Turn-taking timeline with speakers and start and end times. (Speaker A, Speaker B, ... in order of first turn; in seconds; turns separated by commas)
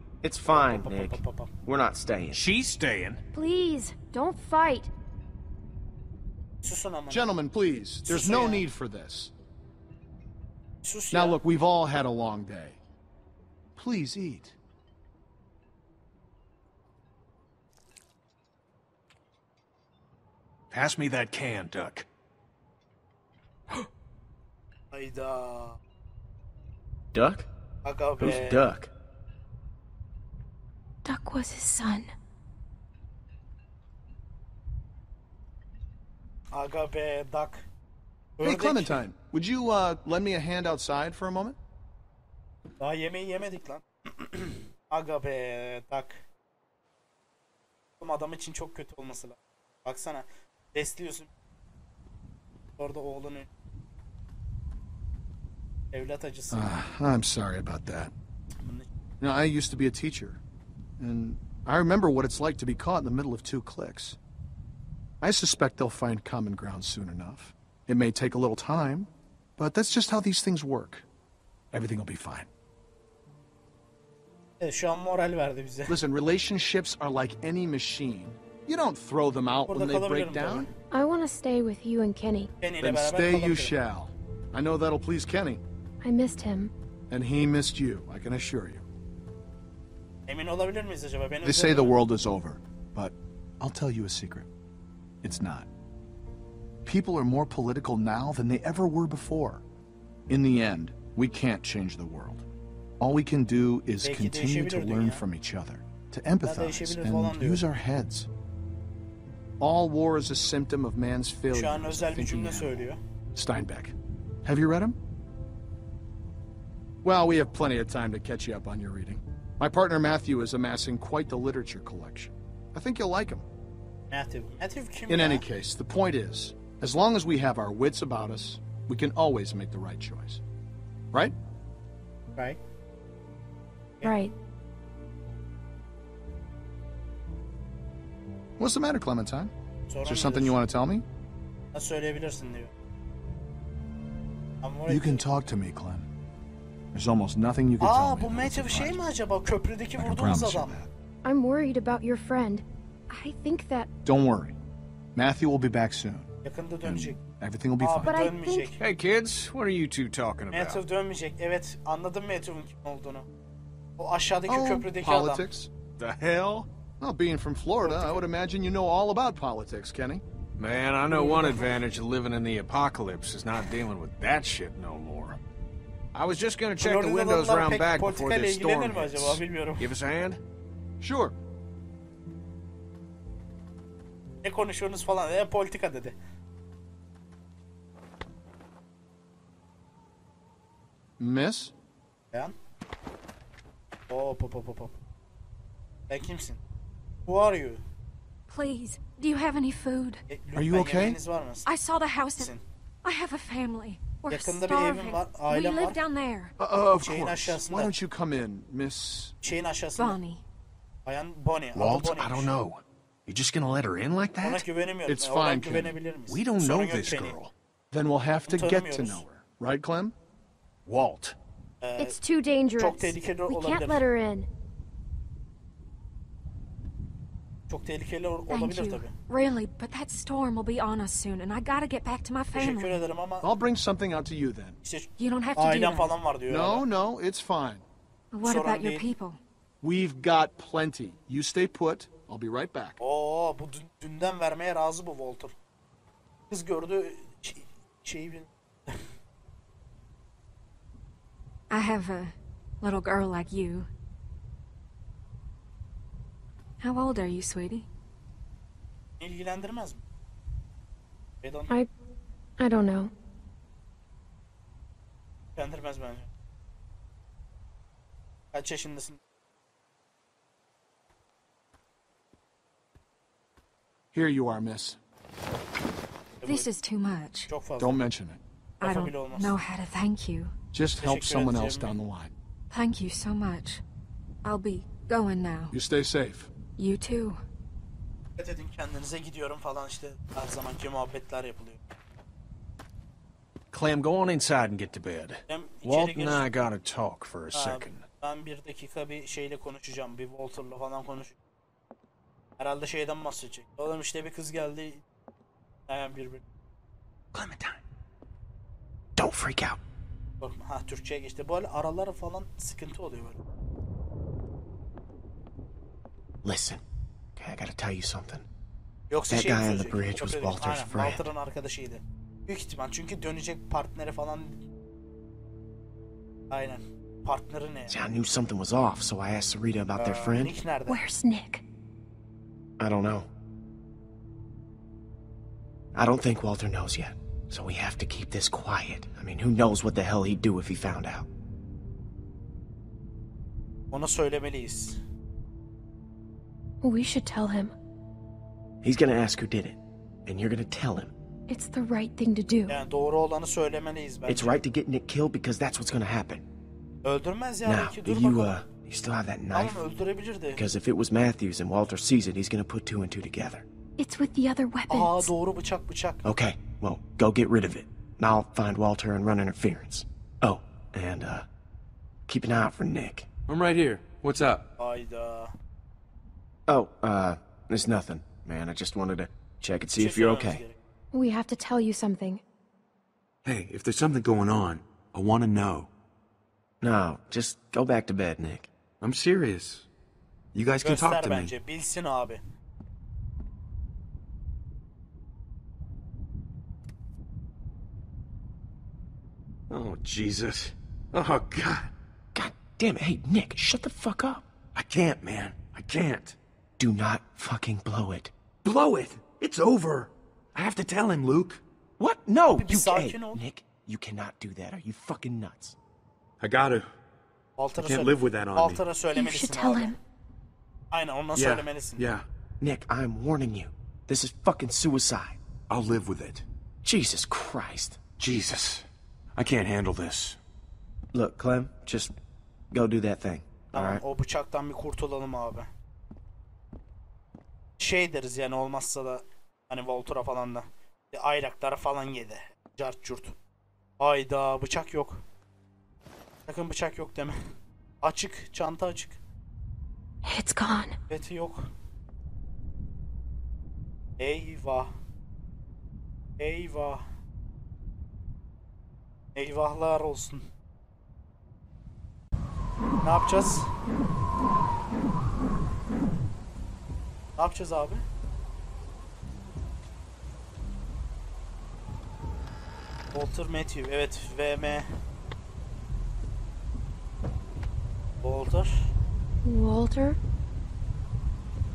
Speaker A: 0.2-2.4, Speaker B: 0.5-1.5, Speaker C: 2.3-3.2, Speaker D: 3.3-4.9, Speaker B: 6.6-7.4, Speaker E: 7.1-9.3, Speaker B: 8.0-8.7, Speaker B: 10.8-11.4, Speaker E: 11.1-12.8, Speaker E: 13.8-14.6, Speaker C: 20.7-22.1, Speaker B: 24.9-25.8, Speaker A: 27.1-27.5, Speaker B: 27.8-28.7, Speaker A: 28.2-28.9, Speaker D: 31.0-32.1, Speaker B: 36.5-37.6, Speaker B: 38.4-39.0, Speaker E: 38.4-41.6, Speaker B: 42.8-46.2, Speaker B: 48.0-51.3, Speaker B: 52.8-53.5, Speaker B: 55.9-56.8, Speaker E: 56.5-58.1, Speaker B: 58.6-58.9, Speaker E: 59.2-60.4, Speaker E: 61.0-64.2, Speaker E: 65.2-71.0, Speaker E: 71.7-72.5, Speaker B: 74.6-75.9, Speaker E: 75.9-80.7, Speaker B: 79.7-80.7, Speaker D: 80.9-82.5, Speaker B: 82.6-83.7, Speaker E: 82.8-85.6, Speaker D: 86.0-86.7, Speaker E: 87.1-88.8, Speaker B: 90.3-92.0, Speaker E: 91.4-94.5, Speaker E: 95.2-95.7, Speaker E: 96.8-99.6, Speaker E: 100.3-102.4, Speaker E: 103.0-108.3, Speaker B: 104.0-105.2, Speaker B: 106.4-107.6, Speaker E: 109.6-112.8, Speaker B: 111.5-113.0, Speaker E: 113.3-115.0, Speaker E: 117.0-123.5, Speaker B: 124.1-125.4, Speaker E: 125.1-130.4, Speaker D: 134.0-134.3, Speaker E: 138.6-139.5, Speaker B: 139.9-140.6, Speaker E: 140.0-141.0, Speaker B: 141.7-142.7, Speaker B: 144.6-145.2, Speaker E: 144.9-146.1, Speaker E: 146.9-149.0, Speaker B: 147.8-150.8, Speaker E: 149.9-150.9, Speaker D: 151.2-153.9, Speaker E: 154.0-154.6, Speaker E: 155.1-156.3, Speaker B: 156.4-157.2, Speaker E: 156.8-158.3, Speaker B: 157.8-158.8, Speaker D: 158.0-158.8, Speaker C: 158.8-160.8, Speaker B: 160.5-163.3, Speaker B: 164.0-165.5, Speaker E: 164.5-165.7, Speaker C: 166.0-166.7, Speaker E: 167.0-170.2, Speaker B: 167.8-168.3, Speaker C: 170.6-175.4, Speaker B: 171.1-171.7, Speaker C: 176.1-180.4, Speaker B: 176.8-179.9, Speaker E: 181.0-181.3, Speaker B: 184.4-186.2, Speaker E: 191.2-191.7, Speaker B: 194.1-194.9, Speaker B: 196.1-196.6, Speaker B: 197.2-197.8, Speaker F: 198.5-200.2, Speaker B: 200.3-201.7, Speaker E: 200.5-201.2, Speaker F: 201.6-202.5, Speaker B: 202.4-202.6, Speaker F: 203.0-206.5, Speaker B: 204.3-206.0, Speaker E: 206.6-209.3, Speaker B: 206.9-207.9, Speaker B: 209.4-210.2, Speaker F: 210.0-210.4, Speaker B: 211.1-212.5, Speaker C: 211.7-214.6, Speaker B: 214.4-217.4, Speaker E: 215.1-216.0, Speaker C: 216.3-217.5, Speaker E: 217.9-220.1, Speaker B: 218.4-219.2, Speaker C: 220.8-221.3, Speaker B: 221.8-222.2, Speaker D: 222.0-224.5, Speaker B: 222.8-224.0, Speaker B: 227.7-229.1, Speaker F: 228.5-233.0, Speaker B: 232.5-233.5, Speaker E: 233.4-234.8, Speaker B: 234.8-236.8, Speaker F: 235.2-236.1, Speaker E: 236.5-237.8, Speaker F: 238.3-239.4, Speaker B: 238.4-239.1, Speaker E: 239.8-243.0, Speaker B: 243.0-245.5, Speaker B: 246.5-249.1, Speaker F: 251.7-253.9, Speaker F: 256.8-257.9, Speaker B: 259.2-260.0, Speaker B: 261.4-261.7, Speaker D: 262.6-263.1, Speaker B: 265.6-266.3, Speaker B: 268.5-269.2, Speaker E: 274.1-275.0, Speaker B: 276.4-276.7, Speaker F: 276.4-277.5, Speaker B: 277.5-278.0, Speaker E: 277.8-278.4, Speaker F: 278.8-280.5, Speaker B: 278.8-279.5, Speaker E: 280.7-282.3, Speaker B: 281.0-282.0, Speaker F: 282.7-283.8, Speaker F: 284.4-285.7, Speaker E: 285.7-286.5, Speaker F: 286.8-287.4, Speaker B: 288.4-291.8, Speaker C: 293.7-298.1, Speaker B: 295.5-296.5, Speaker B: 297.5-301.4, Speaker B: 302.6-305.0, Speaker B: 305.9-306.4, Speaker A: 309.1-309.8, Speaker B: 310.4-313.4, Speaker A: 316.4-316.8, Speaker A: 317.4-318.4, Speaker B: 319.1-324.6, Speaker A: 319.3-321.2, Speaker B: 326.5-328.0, Speaker A: 327.9-330.6, Speaker B: 329.9-331.0, Speaker D: 330.9-331.6, Speaker A: 332.8-333.3, Speaker A: 335.9-341.3, Speaker B: 343.9-345.0, Speaker D: 346.8-347.7, Speaker A: 348.8-351.1, Speaker D: 351.5-352.8, Speaker B: 352.7-354.6, Speaker A: 354.3-356.4, Speaker B: 357.0-358.6, Speaker A: 357.6-359.9, Speaker B: 359.5-360.6, Speaker A: 360.5-363.6, Speaker D: 364.0-365.3, Speaker B: 364.9-366.3, Speaker A: 366.2-371.5, Speaker A: 372.3-373.3, Speaker G: 373.5-374.6, Speaker B: 374.8-375.5, Speaker A: 376.7-380.6, Speaker B: 379.9-380.8, Speaker D: 381.1-382.4, Speaker G: 383.4-385.9, Speaker A: 386.8-388.7, Speaker G: 389.0-389.9, Speaker G: 390.5-391.5, Speaker B: 390.8-392.4, Speaker G: 399.7-401.9, Speaker A: 402.3-404.5, Speaker G: 404.7-406.4, Speaker A: 406.8-408.3, Speaker G: 408.6-411.6, Speaker A: 412.0-415.8, Speaker B: 412.5-413.4, Speaker G: 416.4-416.9, Speaker B: 417.6-419.9, Speaker G: 417.8-418.8, Speaker D: 419.1-420.0, Speaker B: 420.9-422.1, Speaker G: 421.3-422.2, Speaker A: 422.6-425.4, Speaker G: 425.7-426.4, Speaker A: 426.8-428.1, Speaker G: 428.2-430.4, Speaker A: 431.1-432.1, Speaker A: 432.7-434.0, Speaker B: 433.7-435.7, Speaker B: 437.8-443.3, Speaker B: 444.0-445.2, Speaker B: 446.5-447.4, Speaker B: 448.0-449.2, Speaker D: 450.2-450.9, Speaker B: 451.1-451.6, Speaker B: 454.2-454.9, Speaker B: 456.4-457.0, Speaker B: 459.3-460.4, Speaker B: 463.0-463.7, Speaker B: 467.4-468.0, Speaker B: 473.1-474.9, Speaker B: 478.2-478.7, Speaker D: 479.4-480.2